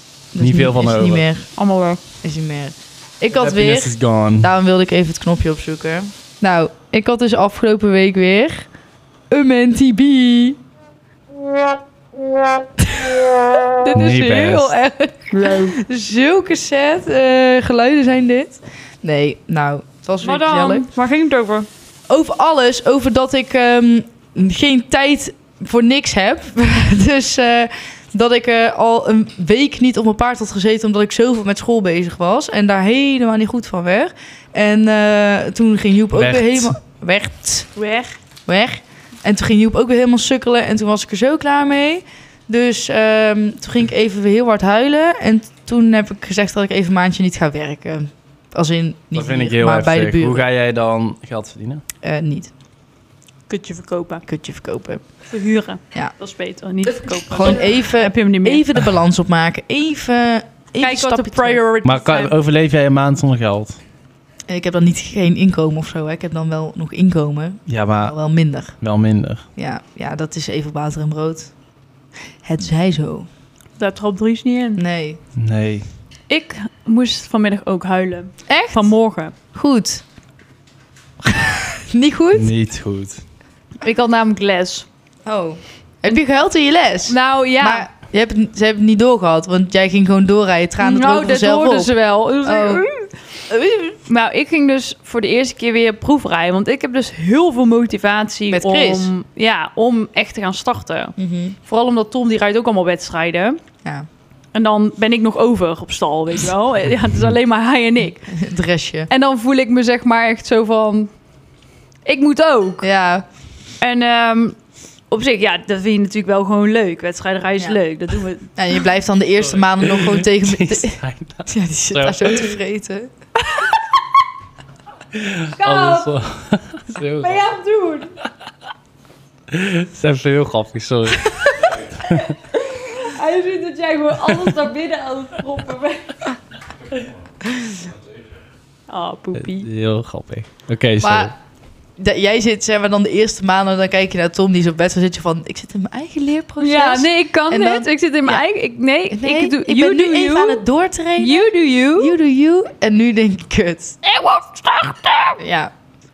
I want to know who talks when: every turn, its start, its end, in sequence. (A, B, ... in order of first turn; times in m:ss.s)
0:00.3-0:01.5 A
0:00.4-0:01.3 B
0:01.6-0:02.0 C
0:02.2-0:08.7 A
0:03.4-0:04.5 B
0:09.3-0:10.6 A
0:12.4-0:20.8 A
0:13.9-0:14.8 B
0:15.3-0:15.8 C
0:20.2-0:21.7 C
0:22.1-0:50.5 A
0:36.1-0:36.8 B
0:49.1-0:51.8 B
0:52.0-0:52.5 A
0:53.5-0:54.2 C
0:54.3-0:55.0 A
0:55.3-0:58.7 C
0:56.9-1:01.6 A
1:00.8-1:02.3 C
1:01.8-1:03.8 B
1:04.5-1:08.8 A
1:07.7-1:08.2 B
1:08.8-1:09.4 B
1:09.6-1:11.5 A
1:12.4-1:13.3 A
1:13.8-1:14.8 C
1:14.8-1:15.2 A
1:15.4-1:15.8 B
1:16.3-1:19.4 C
1:18.5-1:18.9 A
1:19.5-1:20.0 A
1:21.2-1:22.5 A
1:22.4-1:23.2 B
1:23.8-1:24.9 C
1:25.2-1:32.9 A
1:27.1-1:27.9 C
1:30.8-1:33.1 C
1:33.5-1:34.0 A
1:34.1-1:43.6 C
1:38.5-1:39.1 A
1:41.2-1:41.6 A
1:44.5-1:48.3 C
1:48.3-1:49.1 A
1:49.1-1:51.1 C
1:52.0-1:52.9 C
1:52.8-1:53.2 A
1:53.8-1:54.6 C
1:55.1-1:58.5 C
1:58.6-2:03.1 A
1:59.6-2:02.5 B
2:05.1-2:07.4 B
2:05.6-2:06.2 C
2:07.2-2:08.1 C
2:09.5-2:12.3 B
2:12.2-2:16.3 C
2:18.9-2:19.7 C
2:19.5-2:21.3 B
2:21.0-2:21.3 A
2:22.0-2:28.4 A
2:26.6-2:30.6 C
2:29.1-2:34.0 A
2:31.2-2:32.1 C
2:34.0-2:35.4 C
2:35.4-2:35.7 A